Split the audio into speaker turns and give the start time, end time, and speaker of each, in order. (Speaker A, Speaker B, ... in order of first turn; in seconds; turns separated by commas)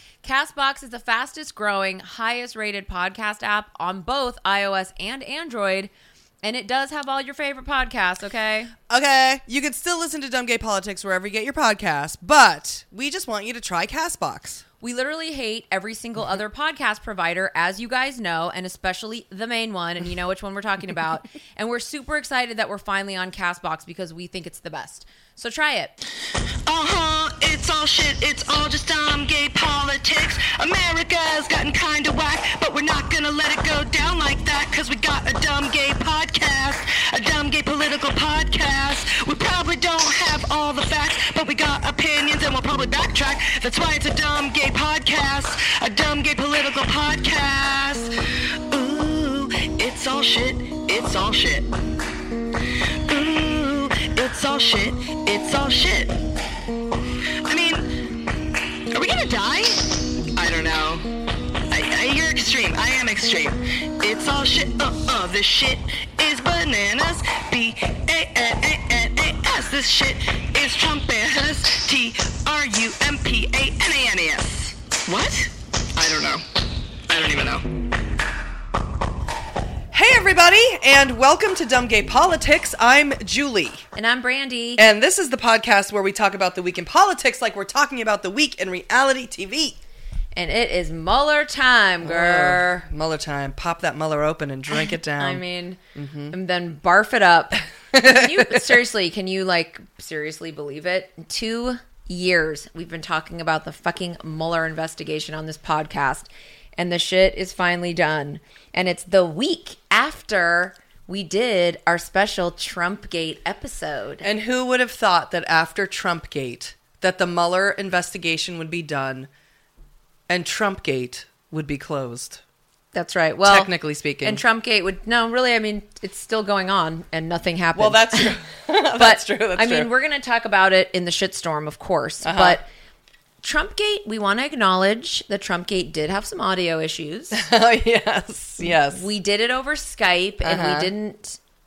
Speaker A: 0.2-5.9, Speaker A: 6.4-8.7, Speaker B: 8.9-14.6, Speaker A: 14.8-26.0, Speaker C: 26.7-48.1, Speaker C: 48.7-51.6, Speaker C: 52.7-56.2, Speaker C: 57.4-58.0, Speaker C: 58.9-61.0, Speaker C: 61.7-76.4, Speaker C: 77.1-77.7, Speaker B: 79.9-83.8, Speaker A: 83.9-84.8, Speaker B: 84.8-89.8, Speaker A: 90.3-92.8, Speaker B: 92.0-95.4, Speaker A: 95.2-95.8, Speaker B: 95.9-96.3, Speaker A: 96.3-114.2, Speaker B: 97.9-98.7, Speaker B: 114.2-119.3, Speaker B: 120.3-122.4, Speaker A: 122.9-123.7, Speaker B: 123.4-124.4, Speaker A: 124.2-128.3, Speaker B: 127.8-129.9, Speaker A: 129.0-132.6, Speaker B: 132.2-132.6, Speaker A: 133.4-137.4, Speaker B: 137.3-139.1, Speaker A: 138.7-141.4, Speaker B: 140.4-140.9